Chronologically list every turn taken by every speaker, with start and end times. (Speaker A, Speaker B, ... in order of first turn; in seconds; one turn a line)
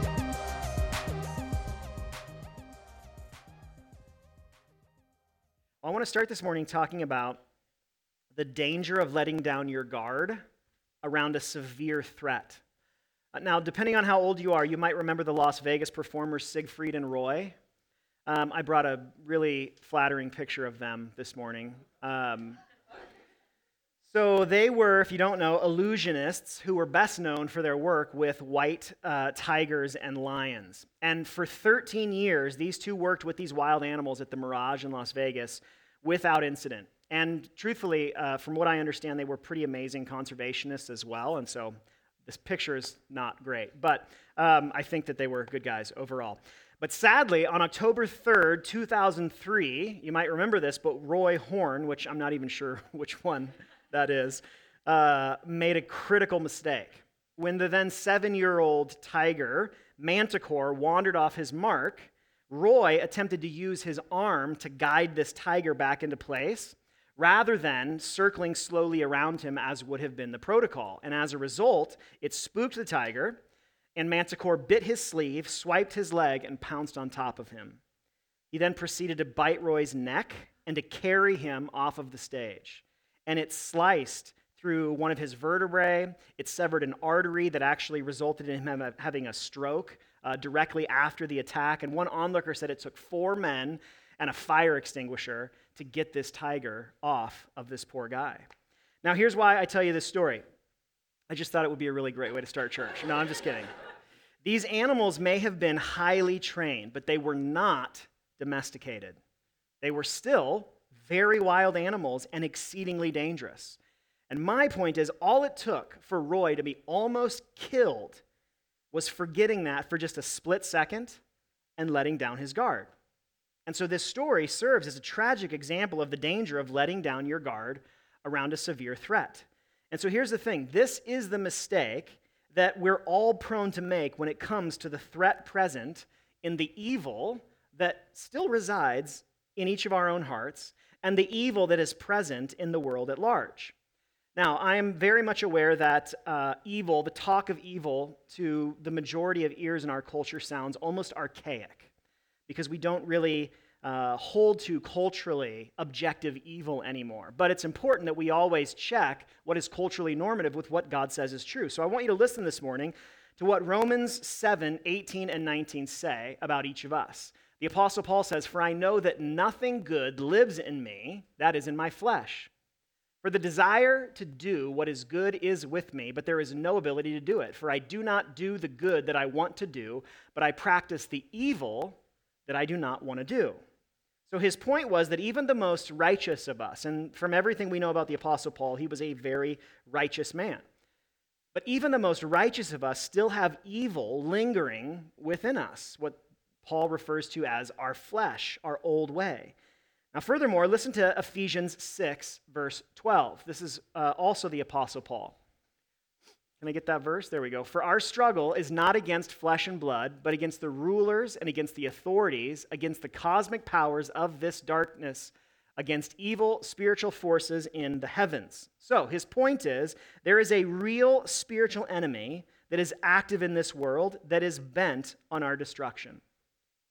Speaker A: 5.8-7.4
Speaker A: 8.3-10.4
Speaker A: 11.0-12.6
Speaker A: 13.3-17.6
Speaker A: 18.2-22.6
Speaker A: 24.0-73.4
Speaker A: 74.0-77.8
Speaker A: 78.5-98.5
Speaker A: 99.0-100.4
Speaker A: 101.3-103.7
Speaker A: 104.4-109.2
Speaker A: 109.8-113.8
Speaker A: 114.3-118.2
Speaker A: 118.9-121.2
Speaker A: 121.8-122.9
Speaker A: 123.7-143.7
Speaker A: 144.3-151.9
Speaker A: 152.5-172.5
Speaker A: 173.2-183.6
Speaker A: 184.3-190.6
Speaker A: 191.5-199.5
Speaker A: 200.1-205.3
Speaker A: 206.6-226.2